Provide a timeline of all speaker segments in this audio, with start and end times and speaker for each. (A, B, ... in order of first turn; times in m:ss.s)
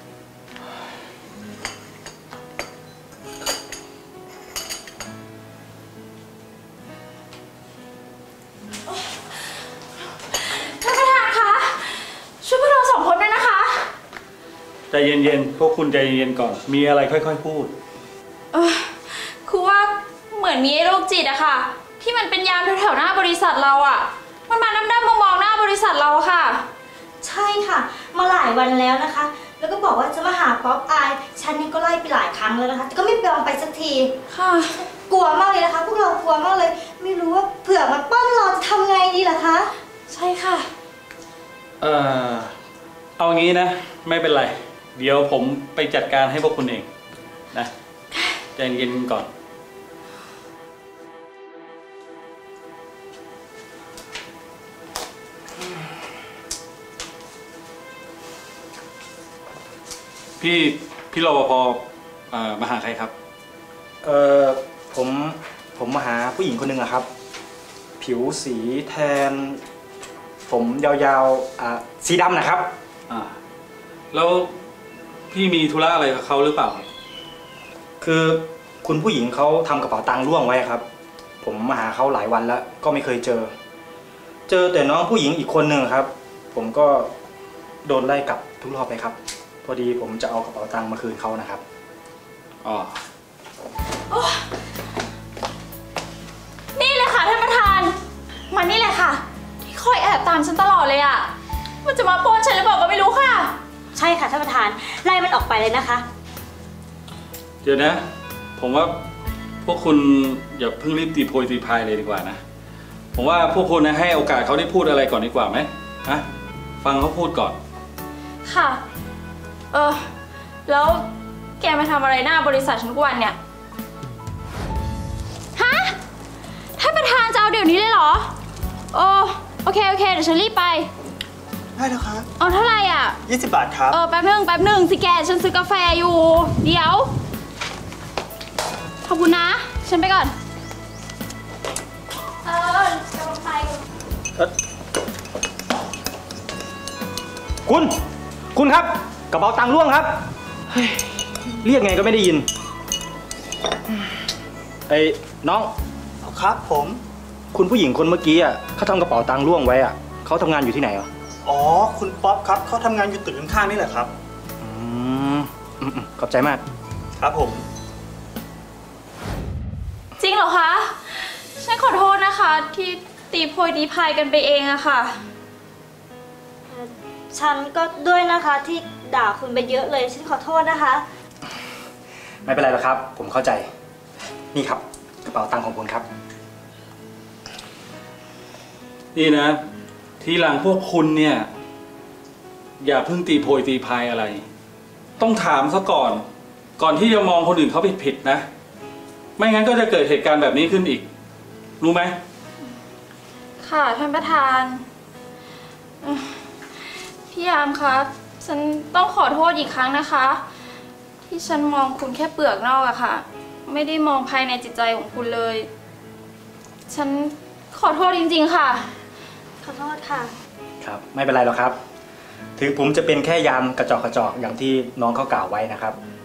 0:10.3-0:13.9 A
0:14.9-0:17.7 B
0:18.5-0:26.6 A
0:27.2-0:34.1 C
0:34.3-0:34.9 A
0:35.1-0:39.7 C
0:40.1-0:40.7 A
0:41.8-0:42.6 B
0:43.2-0:46.9 B
0:48.6-0:49.3 B
1:00.4-1:03.1 B
1:04.0-1:07.1 D
1:08.0-1:09.6 D
1:10.5-1:12.7 D
1:14.1-1:14.5 B
1:15.3-1:16.9 B
1:18.0-1:20.8 D
1:21.4-1:23.5 D
1:24.5-1:27.1 D
1:27.8-1:31.6 D
1:32.6-1:33.0 B
1:34.1-1:34.5 A
1:36.8-1:38.0 A
1:38.5-1:41.3 A
1:41.8-1:43.6 A
1:44.0-1:46.0 C
1:47.6-1:48.0 B
1:48.6-1:49.0 B
1:49.6-1:52.4 B
1:53.1-1:56.2 B
1:56.8-1:57.6 B
1:58.4-1:58.8 A
1:59.7-2:00.1 A
2:00.7-2:01.1 A
2:01.6-2:03.4 A
2:05.6-2:06.0 A
2:06.8-2:08.3 A
2:08.9-2:10.9 A
2:11.8-2:12.3 E
2:12.4-2:13.2 A
2:13.3-2:14.0 E
2:13.9-2:17.1 A
2:19.0-2:20.3 A
2:22.4-2:23.8 A
2:27.7-2:28.0 D
2:28.5-2:32.5 D
2:34.9-2:35.7 D
2:36.2-2:37.0 E
2:37.5-2:41.1 D
2:41.4-2:44.1 E
2:44.6-2:46.6 D
2:47.2-2:47.6 E
2:50.2-2:55.2 A
2:56.7-3:01.0 C
3:02.4-3:03.7 D
3:04.5-3:06.0 D
3:09.1-3:09.6 B
3:10.2-3:11.5 B
3:12.8-3:14.4 B
3:15.2-3:16.2 B
3:16.8-3:18.4 B
3:19.4-3:21.1 B
3:21.8-3:22.2 B
3:23.6-3:24.8 A
3:26.0-3:30.4 A
3:31.3-3:35.7 A
3:36.9-3:38.9 A
3:39.6-3:40.3 C
3:40.8-3:41.8 D
3:42.6-3:46.0 D